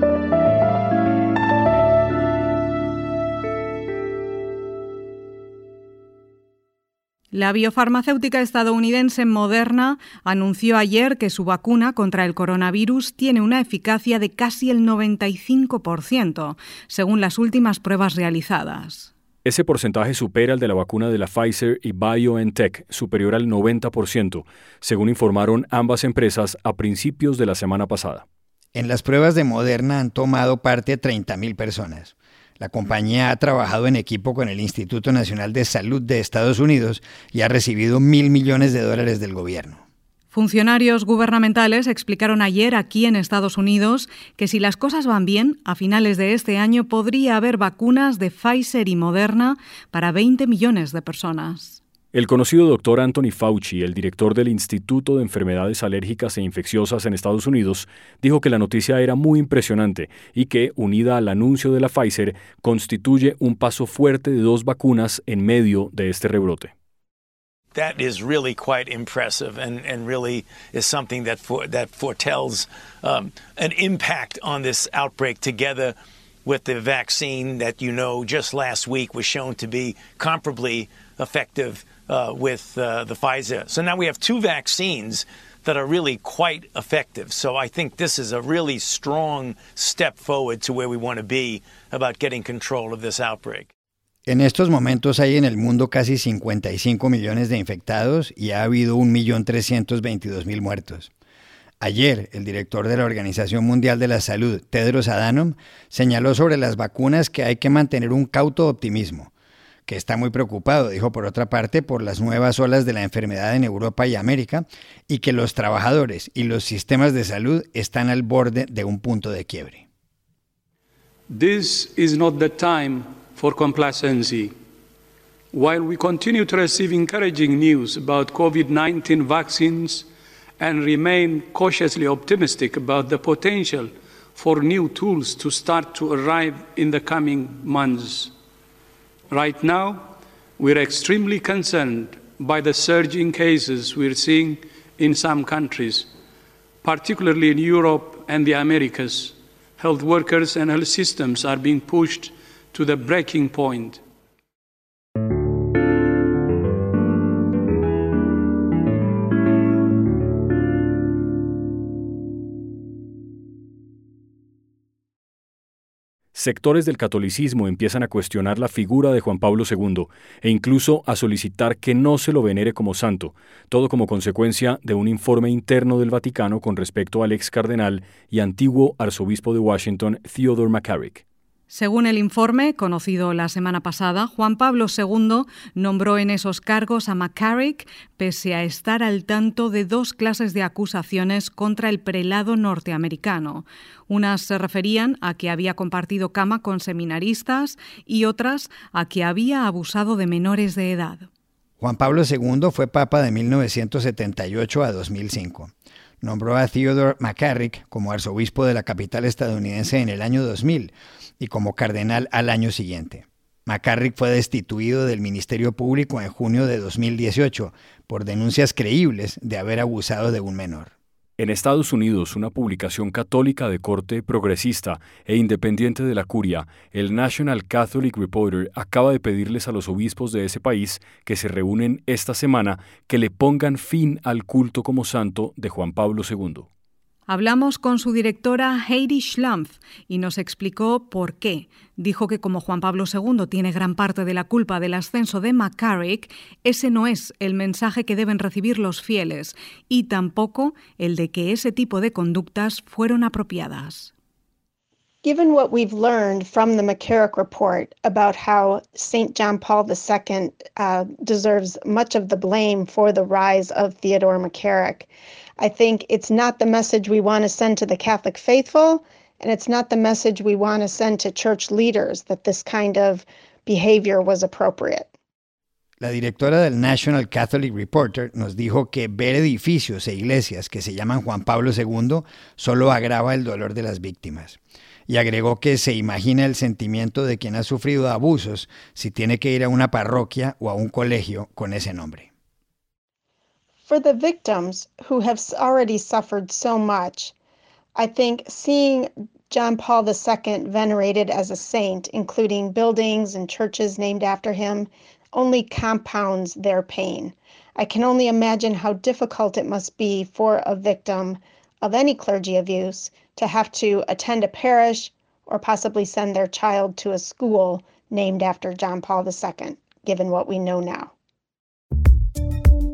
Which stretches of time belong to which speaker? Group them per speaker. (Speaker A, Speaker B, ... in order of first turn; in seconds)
Speaker A: 7.3-19.1, 40.3-51.8, 181.7-201.3, 237.3-254.1
Speaker B: 19.4-28.2, 52.1-66.7, 166.3-181.2, 221.4-236.7
Speaker C: 28.7-39.8, 94.3-101.1, 101.8-109.3, 109.9-119.8, 201.8-220.9, 276.0-292.3
Speaker D: 67.7-93.7
Speaker E: 121.3-124.5, 125.5-130.1, 130.6-138.3, 139.3-146.1, 146.8-154.0
Speaker F: 255.2-275.1, 293.9-297.3, 297.9-321.1